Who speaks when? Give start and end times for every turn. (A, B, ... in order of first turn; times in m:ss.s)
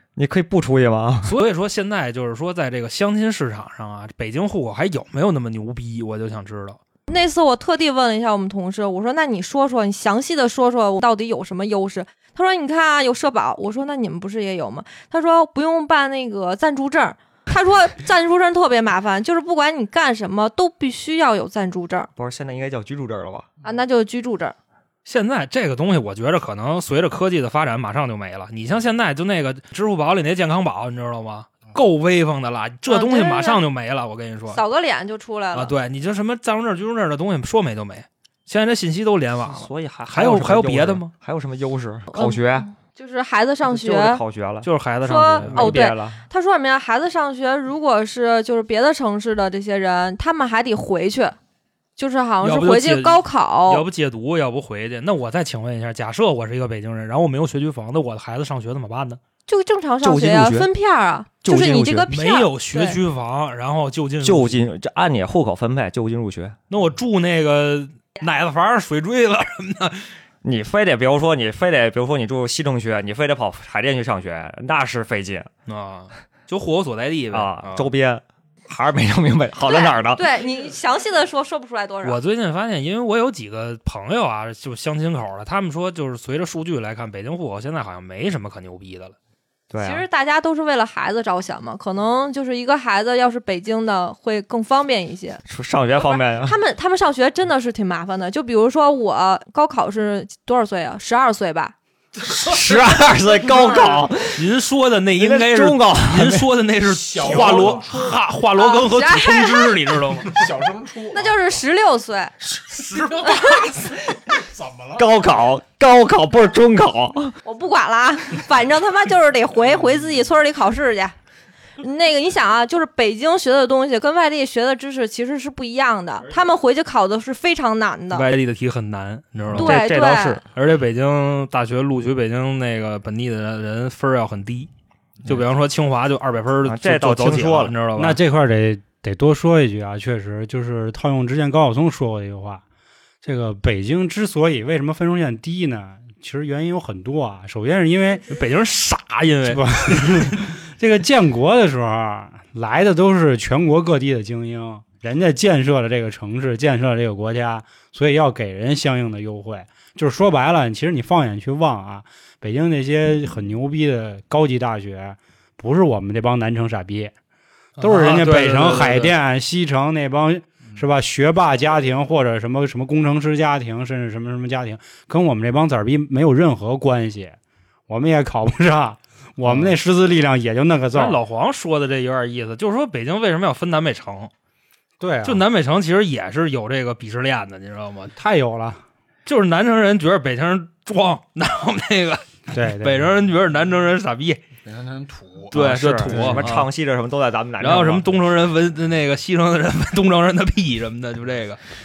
0:00.2-0:01.4 A
0:01.2-0:06.8 B
0:07.1-0:22.1 C
0:22.2-0:23.5 A
0:23.6-0:24.6 C
0:25.0-0:34.6 B
0:32.9-0:33.6 C
0:34.5-0:35.8 C
0:35.5-0:41.1 B
0:39.4-0:42.7 A
0:42.1-0:44.2 C
0:43.7-0:44.7 A
0:44.6-0:45.8 B
0:45.0-0:51.4 C
0:45.4-0:46.2 A
0:52.0-0:53.8 C
0:52.4-0:59.2 B
0:59.5-1:03.0 C
1:00.0-1:00.7 A
1:01.4-1:02.1 A
1:02.1-1:04.6 B
1:04.2-1:06.6 A
1:06.7-1:10.1 B
1:10.4-1:15.5 A
1:15.7-1:17.9 B
1:17.3-1:20.3 A
1:19.6-1:22.2 C
1:22.0-1:29.2 B
1:29.7-1:30.0 A
1:29.8-1:35.4 C
1:35.5-1:36.6 A
1:36.1-1:41.8 C
1:42.2-1:44.0 D
1:42.3-1:44.5 A
1:44.4-1:50.5 B
1:45.2-1:46.5 A
1:46.8-1:48.2 D
1:47.3-1:47.7 A
1:48.6-1:49.8 C
1:50.3-1:51.6 D
1:51.1-1:52.3 C
1:52.4-1:55.1 D
1:53.1-1:54.0 C
1:55.0-1:57.4 A
1:57.4-2:01.2 C
2:01.8-2:08.3 C
2:08.1-2:09.8 B
2:09.5-2:10.4 A
2:09.6-2:10.4 C
2:10.4-2:14.7 B
2:15.2-2:18.2 B
2:16.6-2:17.8 A
2:18.0-2:22.6 E
2:23.2-2:28.2 E
2:28.3-2:30.4 B
2:29.5-2:47.1 E
2:47.8-2:49.1 B
2:47.8-2:57.4 E
2:57.9-3:01.2 E
2:59.4-2:59.8 B
3:00.9-3:04.3 B
3:05.0-3:05.4 E
3:05.2-3:08.1 B
3:08.2-3:08.8 E
3:09.3-3:14.4 B
3:12.5-3:13.1 E
3:14.6-3:15.6 D
3:15.5-3:16.7 B
3:15.5-3:18.2 A
3:16.1-3:16.4 E
3:17.6-3:21.6 B